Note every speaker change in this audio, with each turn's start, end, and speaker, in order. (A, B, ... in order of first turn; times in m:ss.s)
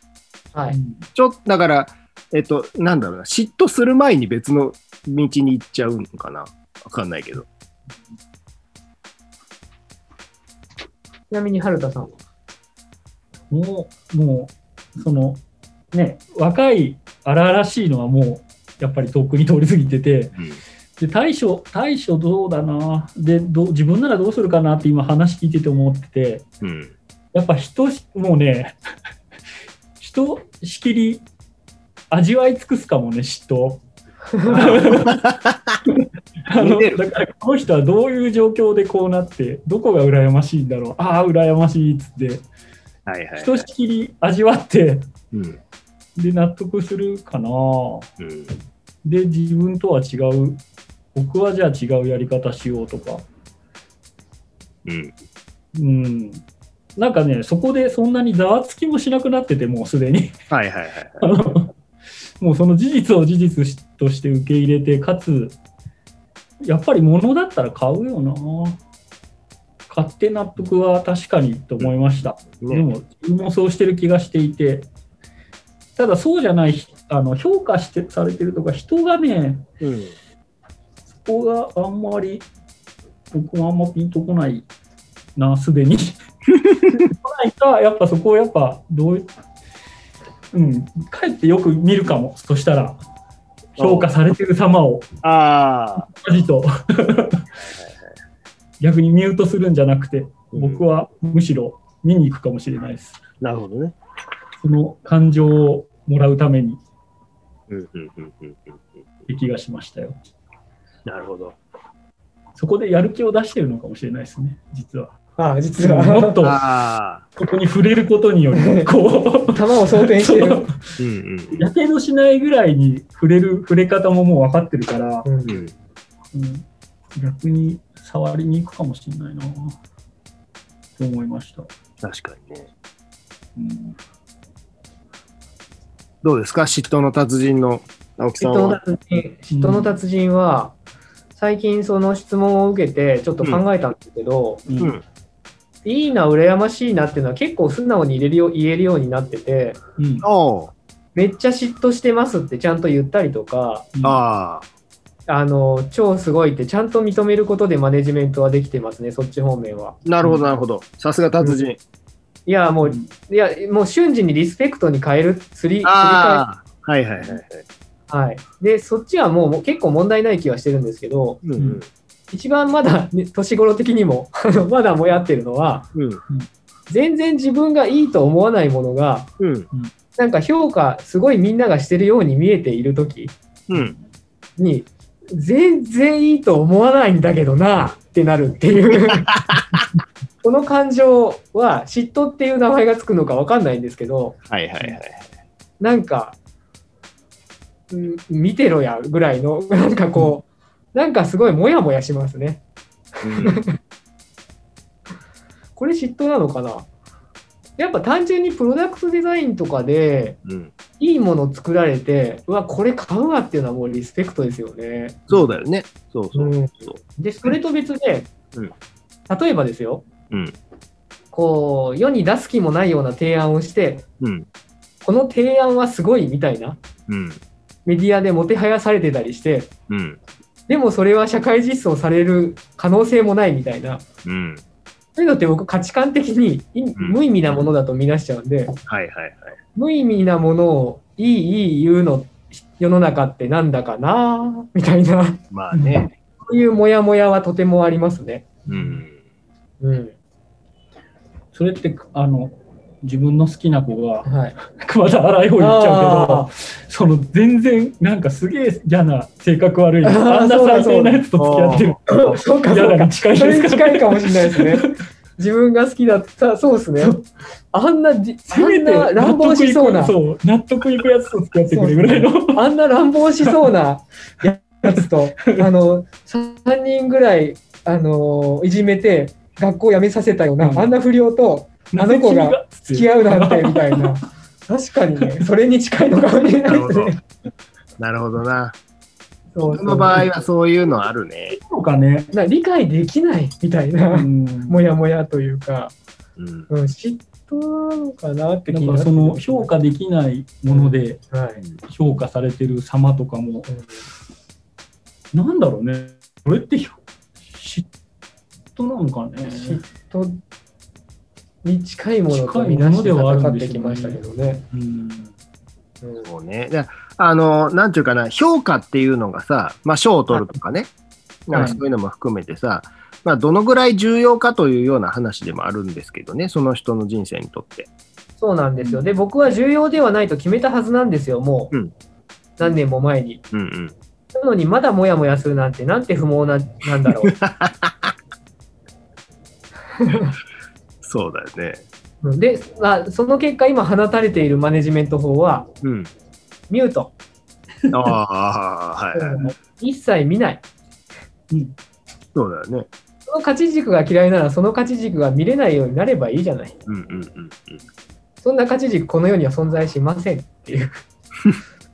0:00.7-0:01.0 A
0:01.2-0:07.4 B
0:11.3-0:12.2 C
0:13.5-0:15.4 A
0:15.9-0:20.4 A
0:21.0-0:26.4 A
0:26.6-0:26.9 B
0:27.3-0:28.7 A
0:30.0-0:31.2 A
0:32.1-0:33.8 A
0:34.3-0:34.7 C
0:34.5-0:35.2 A
0:34.5-0:35.8 B
0:36.4-0:42.4 A
0:36.6-0:37.0 B
0:43.1-0:43.6 B
0:43.4-0:45.1 A
0:45.3-0:45.6 B
0:46.2-0:48.1 A
0:48.2-0:48.5 B
0:49.0-0:50.6 A
0:51.1-0:53.2 A
0:54.8-0:55.1 B
0:55.7-0:56.4 A
0:57.0-1:00.4 A
1:00.5-1:01.2 B
1:01.2-1:01.7 A
1:02.4-1:05.6 A
1:06.6-1:08.8 A
1:09.9-1:14.9 A
1:12.6-1:12.9 B
1:16.0-1:19.6 A
1:19.8-1:20.1 B
1:21.2-1:22.4 A
1:23.3-1:24.6 A
1:25.4-1:26.2 A
1:26.6-1:27.0 B
1:26.9-1:29.3 A
1:30.5-1:33.0 A
1:33.8-1:35.1 A
1:33.8-1:34.1 B
1:35.2-1:36.1 B
1:36.1-1:37.5 A
1:37.6-1:38.1 B
1:38.8-1:43.2 A
1:40.5-1:40.8 B
1:43.4-1:44.0 B
1:44.6-1:46.8 A
1:47.7-1:48.9 B
1:49.3-1:50.2 A
1:51.0-1:51.6 B
1:52.6-1:55.2 A
1:55.4-1:56.4 C
1:55.8-1:56.6 A
1:56.4-1:57.2 B
1:57.4-2:00.8 A
1:58.6-1:58.9 C
1:59.5-2:00.6 C
2:01.0-2:01.6 B
2:01.6-2:05.3 A
2:05.2-2:05.6 C
2:05.5-2:05.7 B
2:06.3-2:09.8 A
2:11.0-2:11.7 A
2:12.0-2:12.7 B
2:13.6-2:14.0 A
2:16.2-2:18.8 B
2:18.4-2:20.8 C
2:19.5-2:20.0 A
2:21.3-2:24.6 C
2:24.7-2:24.9 A
2:25.8-2:29.8 C
2:30.0-2:30.2 A
2:30.2-2:30.7 B
2:31.1-2:33.9 C
2:33.9-2:34.2 A
2:34.0-2:34.6 B
2:35.3-2:40.0 C
2:40.0-2:41.8 B
2:42.5-2:46.4 C
2:42.8-2:43.1 A
2:45.8-2:47.6 B
2:48.1-2:51.4 C
2:51.4-2:51.9 B
2:51.6-2:51.8 A
2:52.3-2:55.9 C
2:55.9-2:56.2 B
2:56.9-2:59.3 C
2:59.4-2:59.7 B
3:00.2-3:03.3 C
3:03.7-3:04.0 B
3:03.7-3:04.0 A
3:04.6-3:09.3 C
3:09.1-3:09.8 B
3:10.4-3:15.0 C
3:14.5-3:15.2 B
3:15.8-3:16.4 C
3:17.9-3:22.6 C
3:23.2-3:23.7 C
3:23.2-3:23.6 B
3:25.8-3:26.9 C
3:27.8-3:30.4 C
3:30.4-3:30.7 B
3:31.0-3:35.2 C
3:35.3-3:37.0 B
3:36.3-3:38.3 C
3:39.3-3:40.0 C
3:40.3-3:40.6 B
3:41.3-3:44.0 C
3:44.2-3:44.5 B
3:45.0-3:46.8 C
3:47.1-3:47.4 B
3:47.8-3:49.7 C
3:49.9-3:50.2 B
3:50.7-3:54.0 C
3:54.2-3:54.6 B
3:55.2-3:58.8 C
3:58.9-3:59.6 B
3:59.7-4:05.4 C
4:05.5-4:06.1 B
4:05.7-4:06.0 A
4:06.4-4:08.4 C
4:08.7-4:09.1 B
4:08.7-4:09.0 A
4:09.8-4:10.1 C
4:11.5-4:24.9 A
4:14.2-4:14.5 C
4:15.6-4:16.5 C
4:20.0-4:21.2 C
4:21.4-4:21.9 B
4:22.0-4:27.2 C
4:27.7-4:30.1 C
4:28.5-4:32.6 A
4:31.7-4:47.2 C
4:34.8-4:35.7 A
4:40.6-4:41.0 A
4:41.9-4:44.2 A
4:46.6-4:47.1 B
4:48.0-4:48.8 B
4:49.5-4:50.3 C
4:49.7-4:51.6 B
4:51.5-4:52.3 A
4:52.3-4:55.9 C
4:54.1-4:54.8 A
4:56.4-4:56.7 B
4:56.7-4:59.7 C
4:58.7-5:01.2 A
5:00.7-5:01.6 C
5:01.8-5:03.7 A
5:03.7-5:04.0 C
5:05.3-5:07.9 A
5:08.8-5:09.8 A
5:09.5-5:10.4 C
5:11.6-5:14.6 C
5:12.3-5:15.3 A
5:16.0-5:16.3 C
5:16.2-5:20.9 B
5:21.5-5:27.9 B
5:21.5-5:21.8 A
5:28.4-5:31.7 C
5:32.6-5:33.4 C
5:33.5-5:33.9 B
5:34.3-5:37.3 C
5:37.1-5:38.1 B
5:40.0-5:40.3 C
5:41.0-5:41.8 B
5:42.2-5:45.7 C
5:45.8-5:46.1 B
5:46.7-5:47.1 C
5:47.9-5:49.4 B
5:49.1-5:50.6 C
5:52.3-5:52.9 B
5:53.3-5:56.8 C
5:56.9-5:57.8 B
5:58.4-6:01.0 C